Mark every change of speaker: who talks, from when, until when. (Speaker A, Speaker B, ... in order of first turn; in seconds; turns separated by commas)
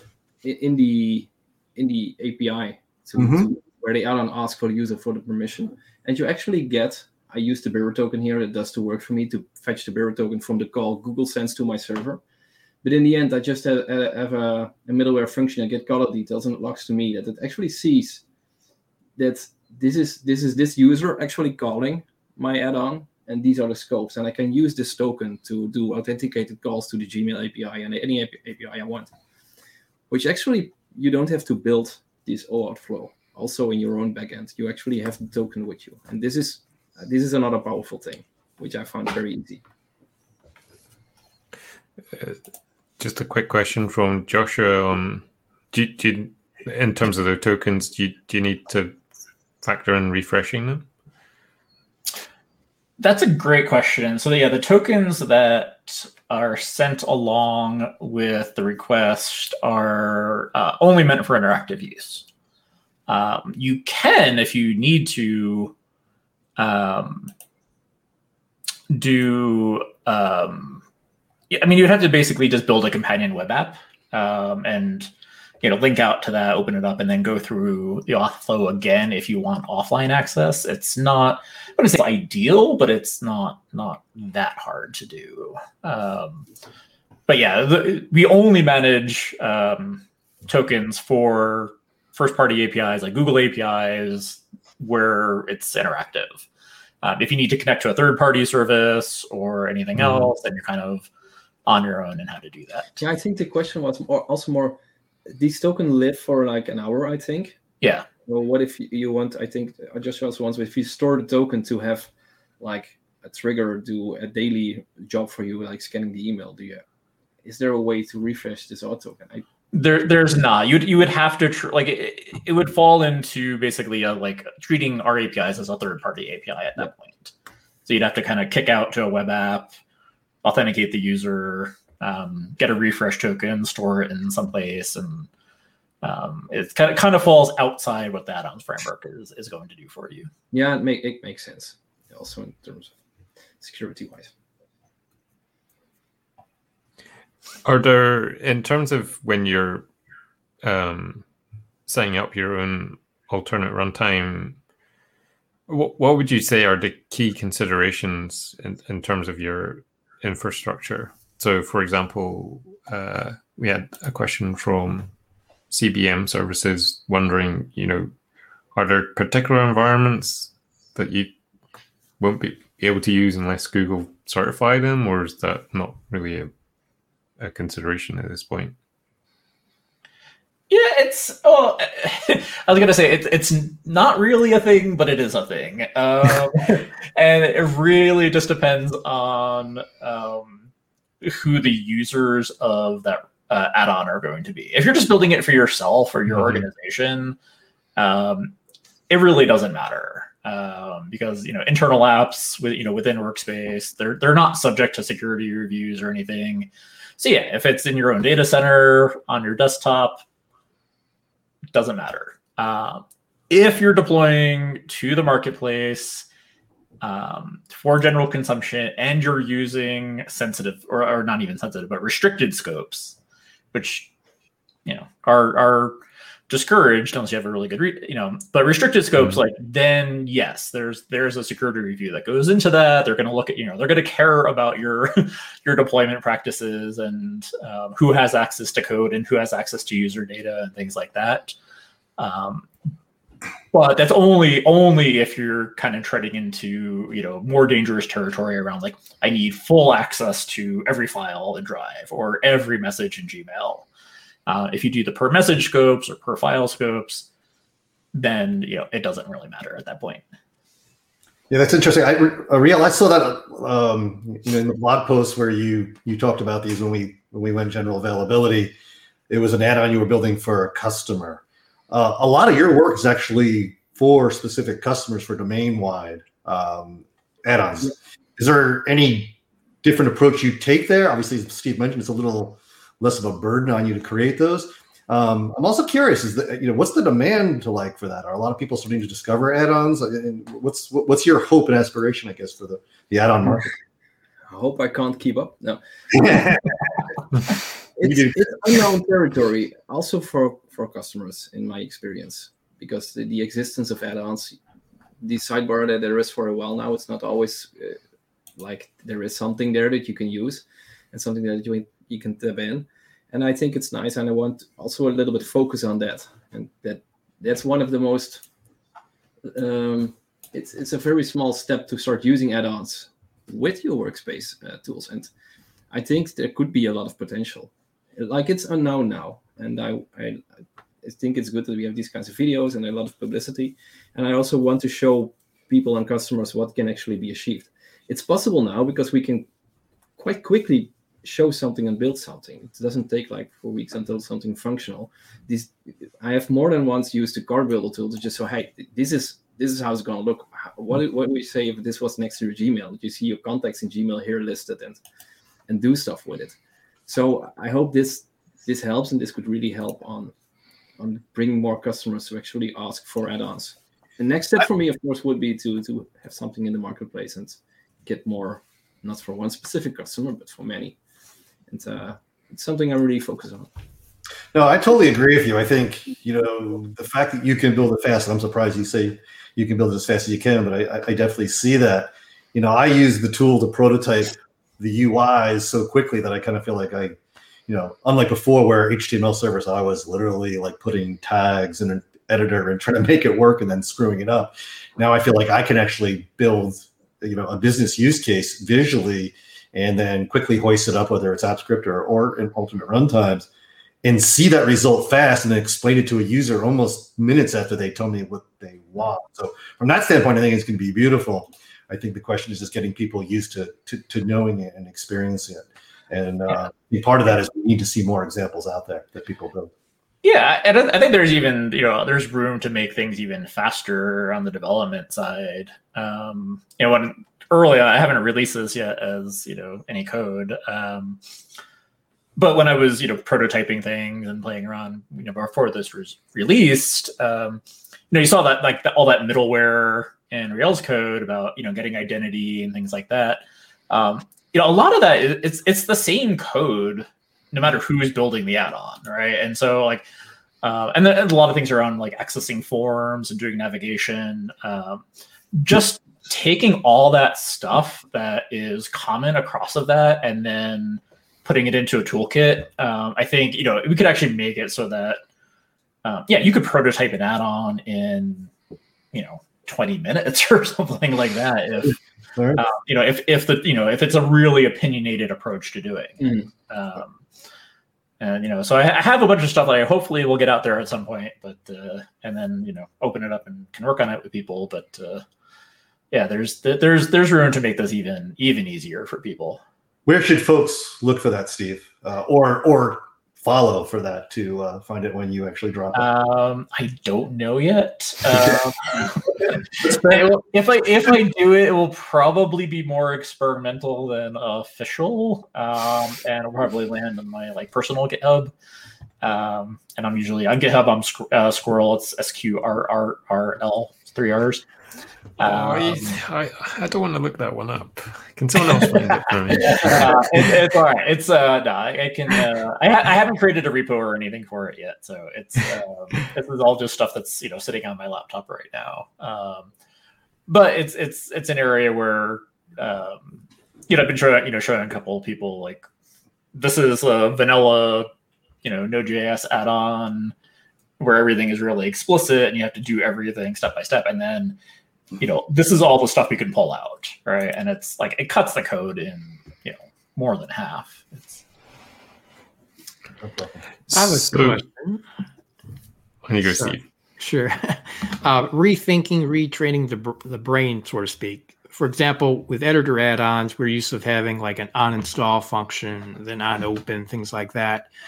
Speaker A: 0.4-12.2, Speaker B: 3.2-3.5, Speaker A: 12.8-18.2, Speaker A: 19.2-29.1, Speaker A: 30.1-39.6, Speaker C: 42.1-42.4, Speaker C: 43.0-49.0, Speaker C: 49.6-50.9, Speaker D: 53.0-62.2, Speaker D: 63.1-65.7, Speaker D: 66.6-67.3, Speaker D: 68.9-70.8, Speaker D: 71.5-75.1, Speaker D: 75.6-86.5, Speaker D: 87.3-96.5, Speaker D: 97.0-101.1, Speaker D: 101.7-102.9, Speaker A: 103.0-104.8, Speaker A: 105.3-107.5, Speaker D: 107.8-108.1, Speaker A: 108.2-116.8, Speaker A: 117.4-119.4, Speaker D: 119.7-127.3, Speaker D: 127.8-129.7, Speaker D: 130.4-135.3, Speaker D: 136.0-140.3, Speaker A: 140.5-142.9, Speaker A: 143.6-144.3, Speaker C: 147.6-149.9, Speaker C: 150.6-151.2, Speaker C: 151.9-154.6, Speaker C: 155.7-165.1, Speaker C: 165.7-168.1, Speaker C: 168.7-171.3, Speaker C: 172.2-176.5, Speaker C: 177.4-178.8, Speaker D: 180.7-190.7, Speaker D: 191.2-197.4, Speaker D: 197.9-198.5, Speaker D: 199.1-210.2, Speaker D: 211.7-216.2, Speaker D: 217.0-223.2, Speaker D: 223.7-224.1, Speaker D: 224.8-241.5, Speaker D: 242.2-242.7, Speaker D: 243.7-253.8, Speaker D: 254.4-257.3, Speaker D: 258.1-260.2, Speaker B: 261.5-268.7, Speaker B: 269.3-293.7, Speaker A: 294.5-296.5, Speaker B: 296.1-296.7, Speaker A: 298.0-304.6, Speaker B: 298.0-298.8, Speaker A: 305.2-308.0, Speaker A: 308.6-318.4, Speaker A: 319.4-325.3, Speaker A: 325.9-330.4, Speaker A: 331.0-339.5, Speaker A: 340.2-355.0, Speaker A: 355.7-356.6, Speaker A: 357.1-360.3, Speaker A: 361.0-371.0, Speaker A: 371.7-373.7, Speaker B: 374.5-403.5, Speaker B: 404.0-419.7, Speaker D: 420.2-431.2, Speaker D: 432.4-450.1, Speaker D: 450.6-465.2, Speaker D: 466.0-468.5, Speaker D: 469.1-472.0, Speaker B: 472.4-472.6, Speaker D: 472.5-477.2, Speaker A: 476.2-476.5, Speaker D: 478.2-485.2, Speaker D: 486.1-489.6, Speaker B: 490.1-496.1, Speaker D: 495.9-508.5, Speaker D: 509.2-514.6, Speaker D: 515.4-516.2, Speaker C: 515.4-520.5, Speaker D: 518.7-529.7, Speaker D: 530.5-535.8, Speaker D: 536.5-538.1, Speaker D: 538.6-540.3, Speaker D: 541.0-544.6, Speaker D: 545.2-551.4, Speaker B: 553.2-553.5, Speaker C: 553.9-554.6, Speaker E: 553.9-555.0, Speaker C: 556.2-556.8, Speaker E: 556.6-567.9